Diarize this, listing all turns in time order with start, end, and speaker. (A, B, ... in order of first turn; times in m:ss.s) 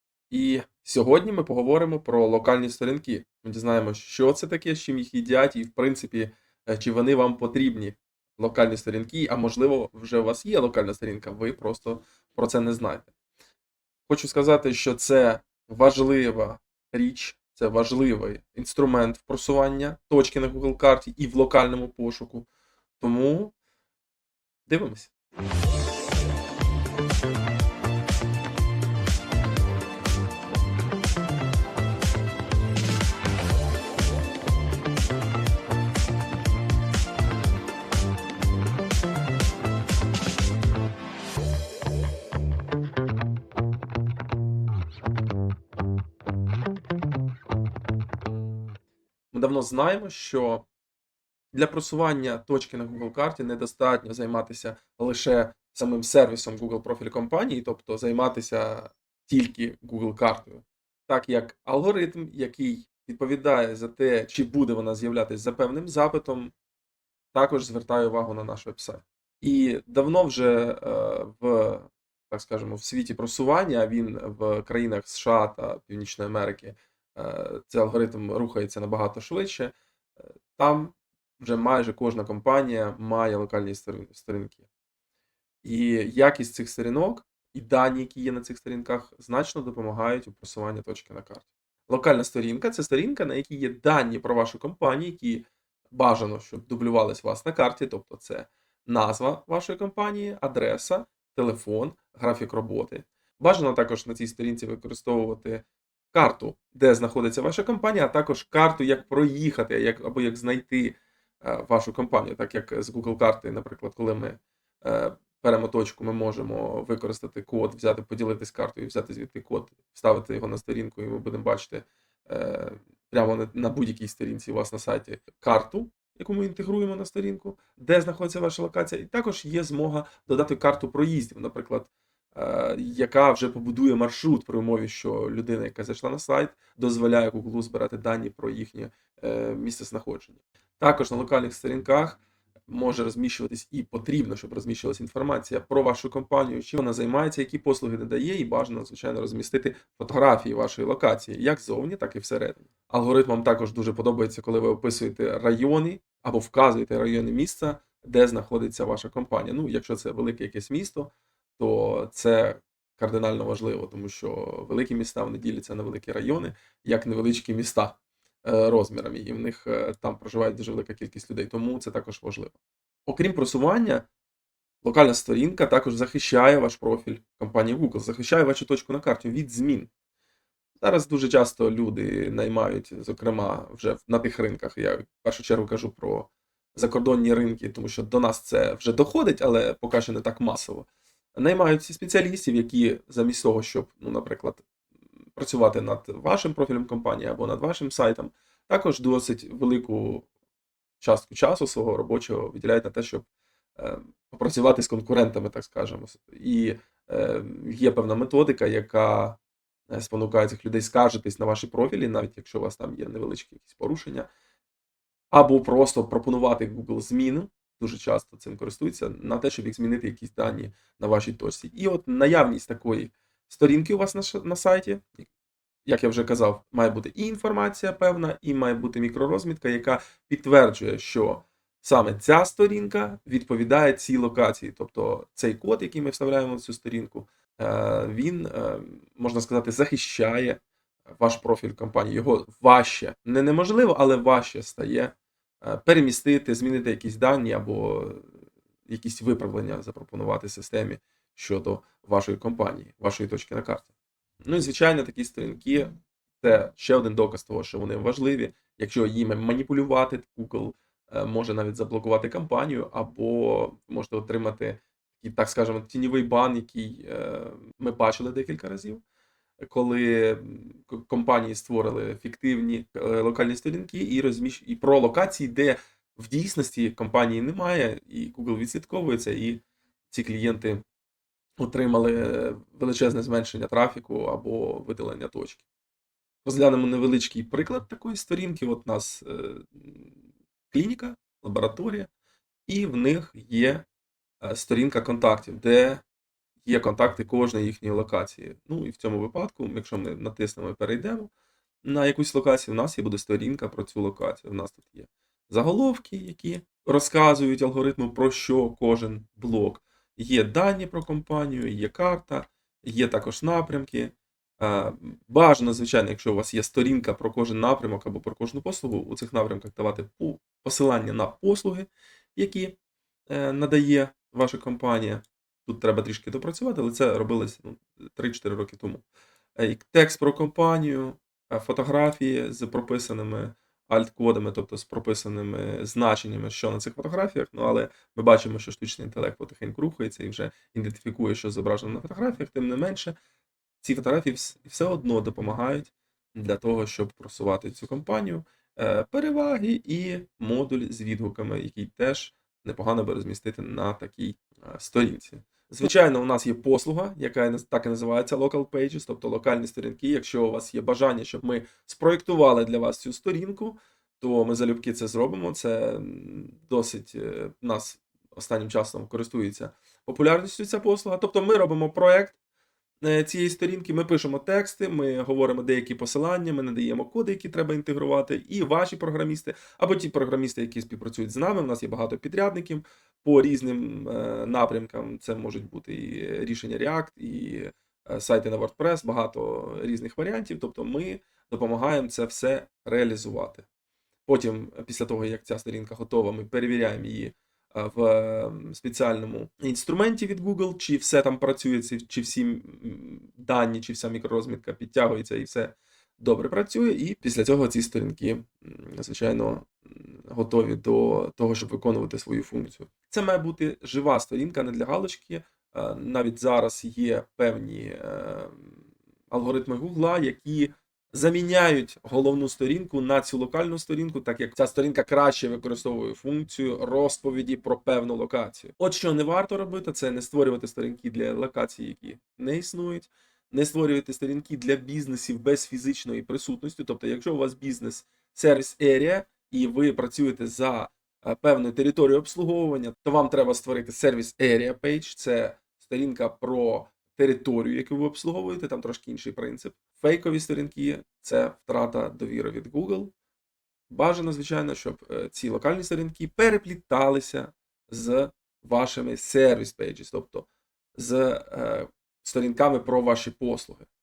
0:00.3-0:13.1 A
0:14.1-0:22.5 A
0:23.0-0:23.5 A
0:24.7-0:25.1 A
0:49.3-0:50.6 A
0:51.5-1:06.5 A
1:07.3-1:19.7 A
1:20.5-1:24.7 A
1:25.6-2:54.1 A
2:54.8-2:59.9 A
3:00.8-3:14.6 A
3:15.4-3:20.3 A
3:21.0-3:29.4 A
3:29.9-3:34.3 A
3:35.3-3:45.3 A
3:45.8-4:00.6 A
4:01.2-4:08.3 A
4:08.9-4:13.9 A
4:14.5-4:29.0 A
4:29.6-4:40.8 A
4:41.6-4:45.6 A
4:46.4-4:50.2 A
4:50.7-4:52.1 A
4:52.7-4:53.9 A
4:54.4-4:56.0 A
4:56.6-5:01.3 A
5:01.8-5:22.8 A
5:23.3-5:29.0 A
5:29.6-5:43.2 A
5:43.8-6:12.4 A
6:13.0-6:33.7 A
6:34.3-7:33.1 A
7:33.9-7:43.9 A